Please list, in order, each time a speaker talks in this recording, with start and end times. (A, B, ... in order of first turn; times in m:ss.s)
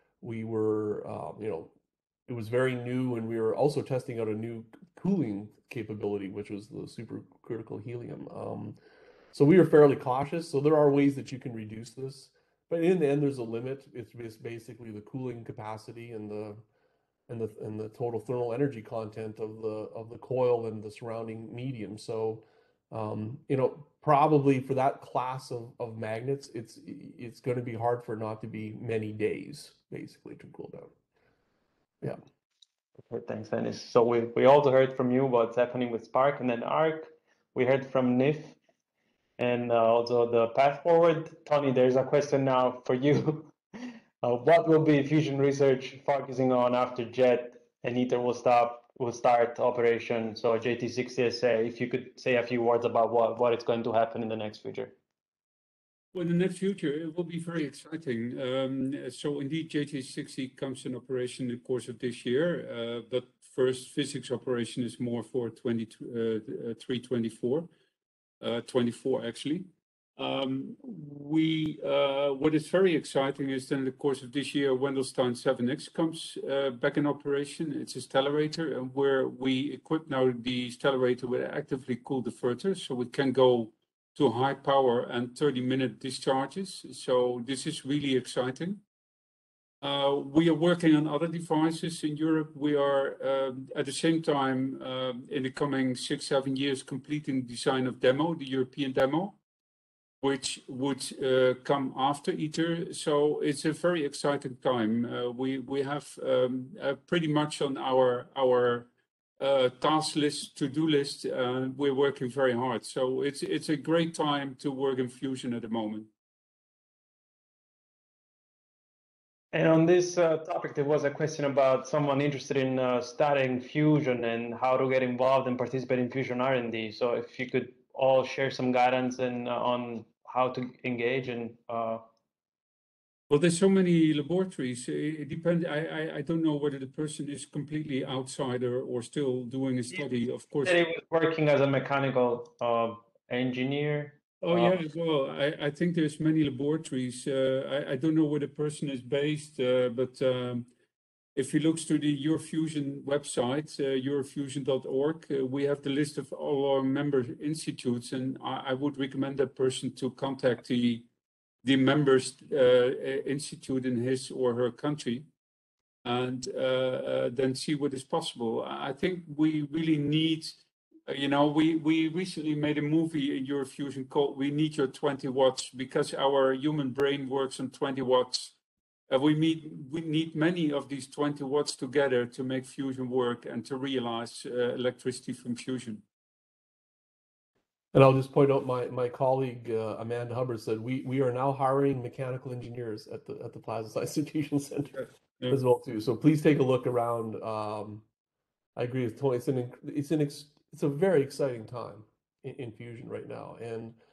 0:00.2-0:01.7 A
0:02.3-0:08.8 A
0:09.3-0:16.6 A
0:17.3-0:30.9 A
0:33.1-0:38.6 B
0:39.4-0:43.6 B
0:44.2-0:54.9 B
0:56.1-1:07.7 C
1:08.4-1:28.8 C
1:29.8-1:39.4 C
1:40.2-1:56.1 C
1:59.5-2:12.0 B
2:13.3-2:20.8 C
2:20.6-2:24.8 B
2:24.4-2:30.7 C
2:31.4-2:41.1 C
2:41.6-2:45.3 C
2:46.0-2:58.6 C
2:59.1-3:06.0 C
3:07.9-3:18.0 A
3:18.8-3:24.0 A